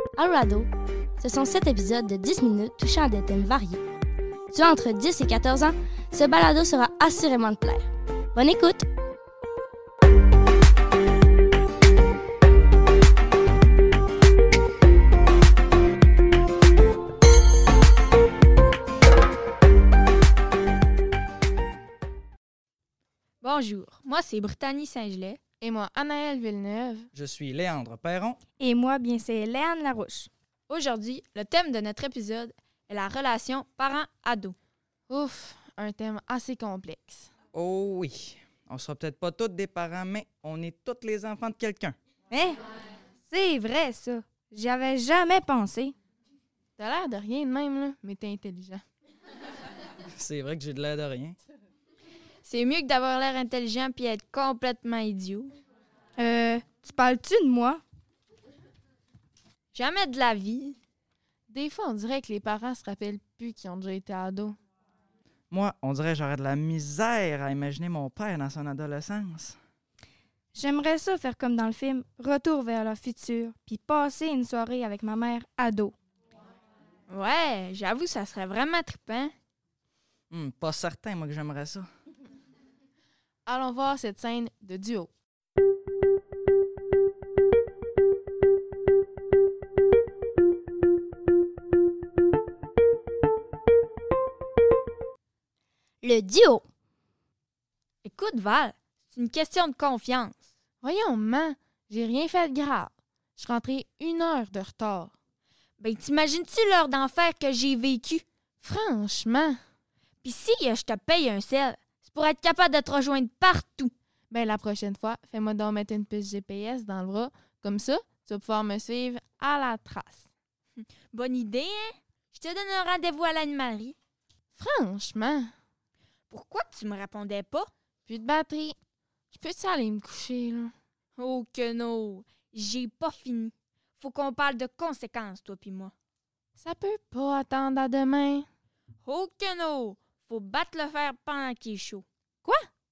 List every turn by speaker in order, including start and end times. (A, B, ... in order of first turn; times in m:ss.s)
0:00.2-0:00.7 A
0:01.2-0:03.8 A
0:04.5-0:08.8 A
0:23.4-0:25.4 B
0:25.6-0:27.1 C
0:27.1-0:28.4 D
0:28.6-0:30.3 E
0:30.7-0:34.6 B
0:35.1-0:37.3 C
0:37.5-0:42.0 D
0:42.3-0:42.6 E
0:43.3-0:46.0 E
0:46.8-0:48.8 C
0:50.2-0:51.4 D
0:52.4-0:55.5 B
0:56.2-0:57.8 E
0:59.7-1:00.8 B
1:01.5-1:04.6 C
1:05.5-1:09.6 D
1:10.5-1:15.9 E
1:17.1-1:19.3 B
1:20.3-1:21.9 D
1:23.5-1:25.1 C
1:36.0-1:36.6 A
1:38.0-1:40.5 B
1:40.8-1:45.1 C
1:45.8-1:48.2 B
1:48.6-1:49.6 C
1:50.2-1:53.9 B
1:54.3-2:00.2 C
2:00.8-2:04.0 B
2:04.6-2:05.5 C
2:06.3-2:07.7 B
2:08.1-2:08.8 C
2:09.3-2:10.7 C
2:11.2-2:15.9 B
2:16.6-2:18.5 C
2:19.0-2:22.0 B